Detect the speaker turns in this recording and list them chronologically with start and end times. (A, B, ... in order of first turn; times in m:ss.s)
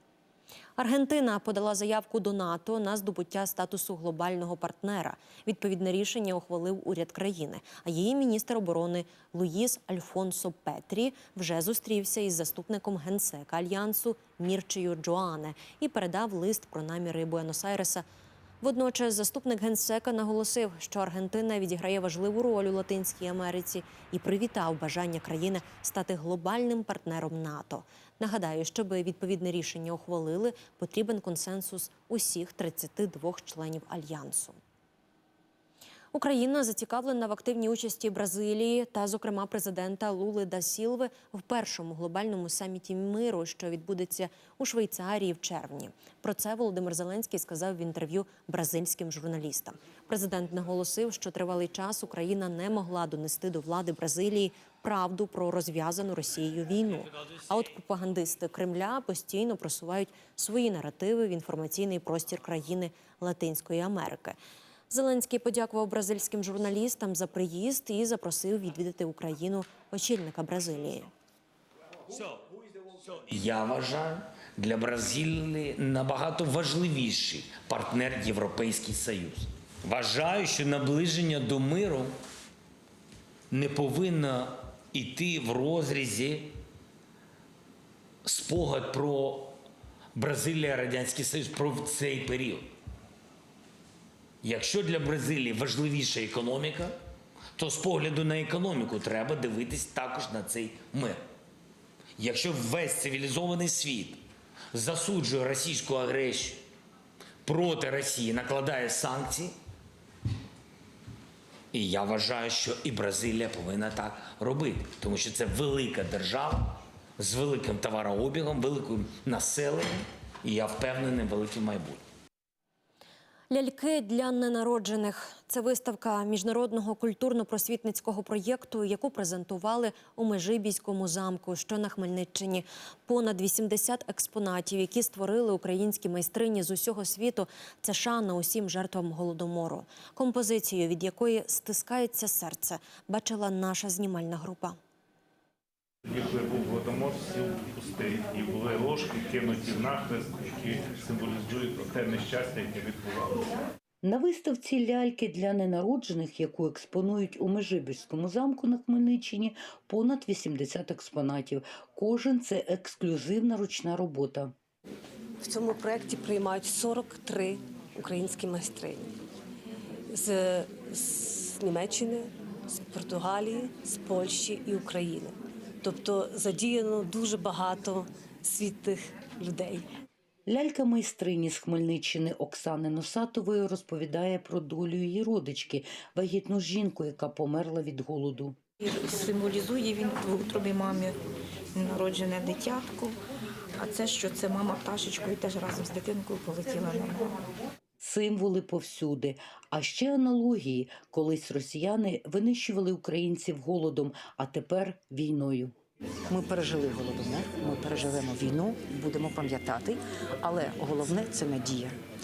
0:00.8-0:18.0 A
0:18.6-0:34.6 A
0:36.1-1:04.4 A
1:04.9-1:11.1 A
1:13.3-1:22.1 B
1:23.5-1:26.5 B
1:28.2-1:29.5 B
1:30.1-1:32.7 B
1:34.4-1:36.9 B
1:37.6-1:41.2 B
1:42.2-1:44.2 B
1:44.7-1:46.6 B
1:47.4-1:49.5 B
1:51.7-2:02.0 B
2:03.5-2:24.8 A
2:26.0-2:33.5 C
2:34.0-2:44.5 D
2:45.4-2:49.1 E
2:50.1-2:59.8 E
3:00.5-3:08.6 D
3:08.8-3:11.2 F
3:11.7-3:13.2 F
3:13.8-3:17.3 F
3:18.0-3:25.7 D
3:26.3-3:32.0 G